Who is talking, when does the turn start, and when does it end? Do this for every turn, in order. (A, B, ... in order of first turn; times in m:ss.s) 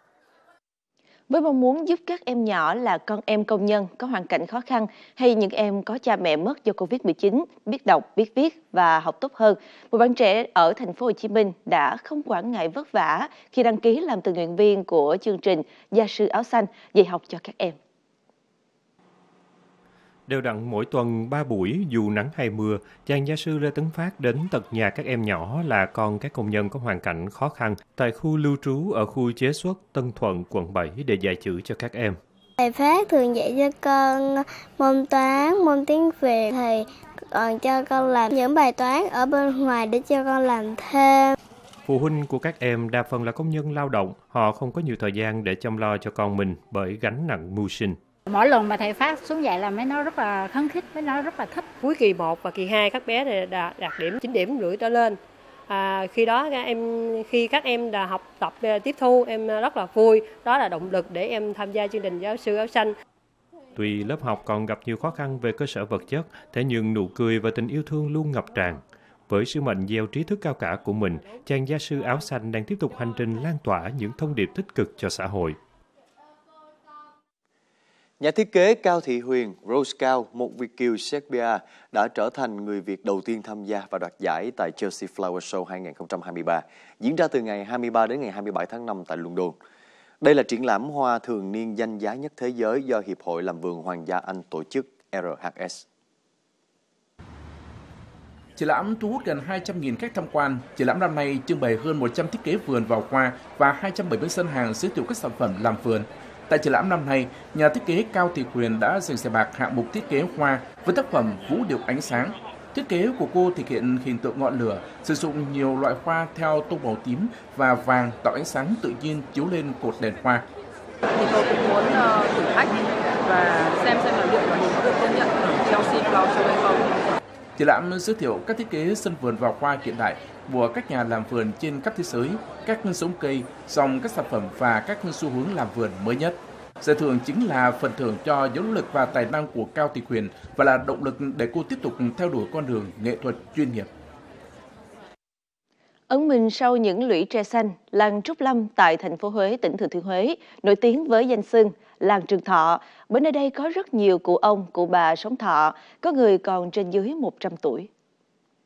0:01.3-0:17.8 A
0:20.3-0:32.2 B
0:32.6-0:41.4 C
0:41.9-0:48.0 B
0:48.3-0:51.7 D
0:51.7-0:55.2 E
0:55.7-1:02.9 E
1:03.8-1:15.6 B
1:18.2-1:29.6 F
1:30.2-1:35.8 F
1:38.6-2:00.4 G
2:01.1-2:07.0 H
2:07.6-2:23.9 G
2:26.1-2:37.9 A